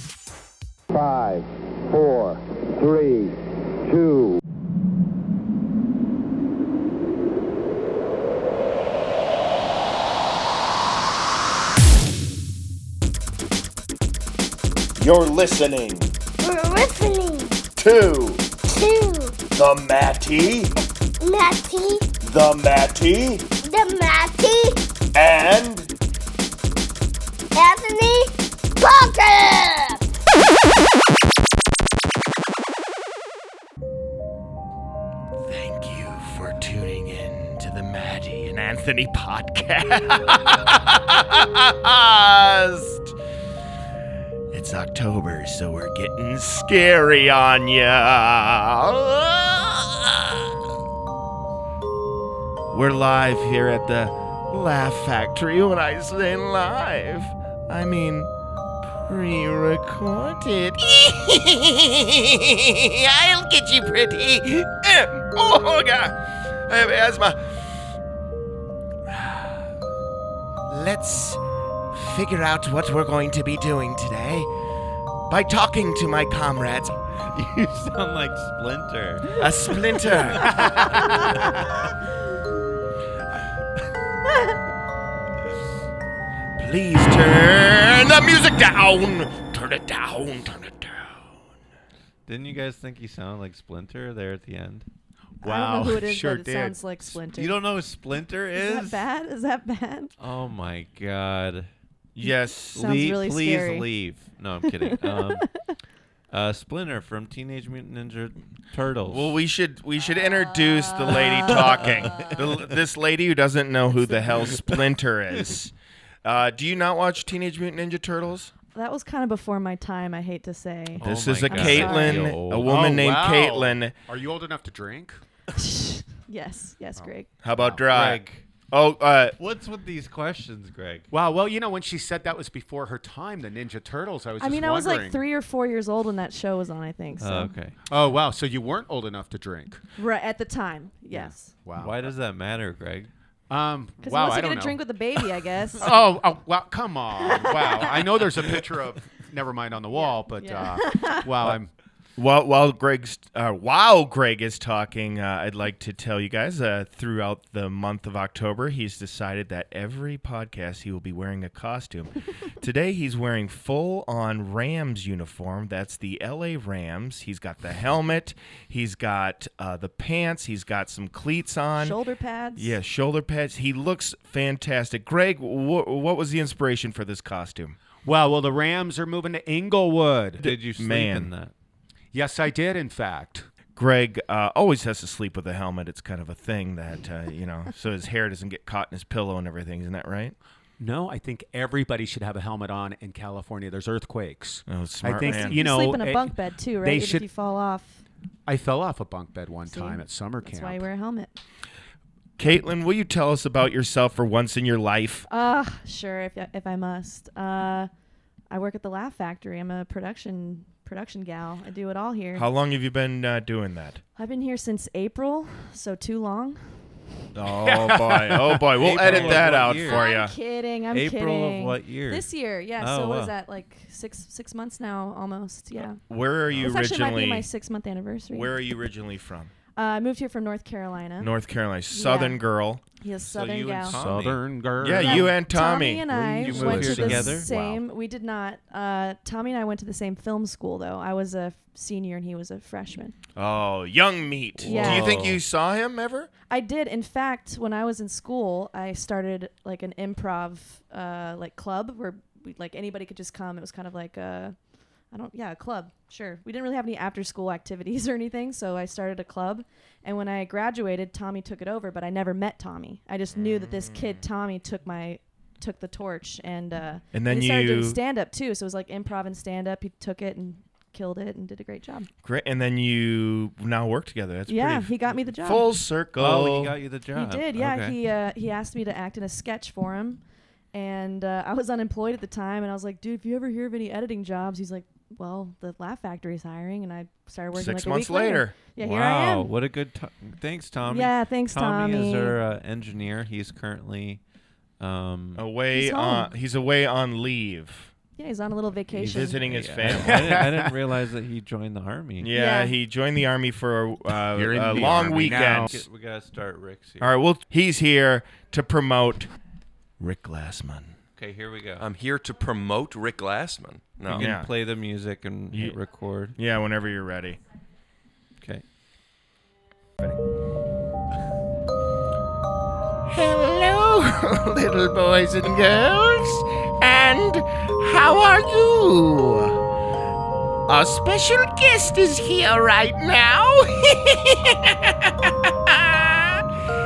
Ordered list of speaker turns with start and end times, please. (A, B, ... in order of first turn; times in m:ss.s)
0:00.9-0:04.4 A
0:15.0-0:16.0 B
0:16.4-0:17.6 C
0:17.8-0:18.4 B
0:18.6-0:19.4 C
0:19.6-0:20.7 B
0:21.2-0:22.1 C
0:22.2-0:23.4 B
0:23.6-0:24.8 C
0:25.1-0:25.9 B
0:27.5-0:30.0 C
0:35.4-0:43.1 B
0:44.5-0:50.5 B
0:52.7-0:58.3 B
0:58.8-1:07.9 B
1:09.1-1:09.7 B
1:10.7-1:11.4 B
1:11.9-1:14.5 B
1:15.3-1:17.0 B
1:17.3-1:19.4 D
1:19.4-1:20.5 B
1:20.5-1:21.0 E
1:26.6-1:31.4 B
1:32.2-1:34.9 D
1:35.4-1:36.8 E
1:35.4-1:37.6 F
1:37.1-1:39.0 D
1:38.5-1:40.1 F
1:40.2-1:41.7 D
1:42.1-1:42.9 B
1:42.2-1:43.9 F
1:42.7-1:49.4 D
1:45.0-1:45.6 F
1:49.0-1:58.5 B
1:50.0-1:52.4 F
1:51.5-1:52.7 D
1:54.0-1:54.5 F
1:58.7-2:02.4 F
2:00.9-2:02.7 D
2:01.0-2:04.0 B
2:02.6-2:05.4 E
2:05.6-2:07.3 F
2:06.9-2:07.8 E
2:07.4-2:09.4 B
2:07.9-2:08.4 D
2:09.4-2:11.1 D
2:11.1-2:15.2 E
2:14.4-2:17.5 F
2:17.2-2:17.8 D
2:17.9-2:19.8 E
2:20.0-2:21.5 F
2:21.1-2:22.0 E
2:21.7-2:23.1 D
2:23.5-2:31.8 E
2:24.0-2:26.0 F
2:27.2-2:28.5 F
2:29.9-2:31.3 F
2:32.2-2:52.0 B
2:51.8-2:52.7 F
2:52.6-2:57.8 B
2:58.0-3:00.5 E
3:00.4-3:01.5 D
3:00.6-3:01.3 B
3:02.1-3:03.5 E
3:03.8-3:10.4 B
3:10.8-3:17.2 E
3:14.7-3:15.6 B
3:15.2-3:18.0 F
3:18.4-3:20.9 E
3:19.7-3:21.4 F
3:22.4-3:25.3 B
3:25.3-3:27.9 F
3:28.5-3:32.5 F
3:32.3-3:34.0 B
3:34.2-3:37.1 F
3:37.3-3:40.4 B
3:37.5-3:38.6 E
3:38.8-3:40.0 D
3:39.1-3:46.0 F
3:40.9-3:43.3 D
3:46.1-3:47.5 B
3:46.6-3:48.7 F
3:48.3-3:49.5 B
3:49.7-3:51.3 F
3:51.2-3:52.8 B
3:51.9-3:54.0 F
3:53.3-3:54.5 D
3:53.9-3:55.4 E
3:54.8-3:56.0 B
3:55.0-4:03.2 F
3:56.1-3:57.8 D
3:56.4-3:57.4 E
4:03.3-4:06.3 B
4:04.6-4:05.4 D
4:04.7-4:05.2 F
4:06.5-4:32.1 F
4:23.3-4:24.2 B
4:27.1-4:28.0 B
4:32.2-4:36.8 B
4:34.5-4:35.7 F
4:36.2-4:38.0 D
4:37.1-4:49.5 F
4:47.5-4:48.5 B
4:48.8-4:54.2 D
4:50.8-4:52.4 F
4:54.8-4:55.4 D
4:55.4-4:57.9 B
4:55.7-4:56.3 F
4:58.2-4:59.6 F
4:58.9-5:00.4 B
4:59.4-5:02.3 D
4:59.9-5:00.7 E
5:02.2-5:05.7 B
5:02.3-5:02.8 F
5:04.3-5:05.8 E
5:04.7-5:07.1 D
5:07.0-5:09.3 B
5:10.0-5:11.0 B
5:11.2-5:11.8 D
5:11.8-5:14.3 G
5:14.1-5:16.4 D
5:14.1-5:14.5 B
5:15.5-5:15.8 B
5:16.3-5:17.4 B
5:18.4-5:18.6 D
5:23.1-5:29.6 B
5:30.7-5:36.5 B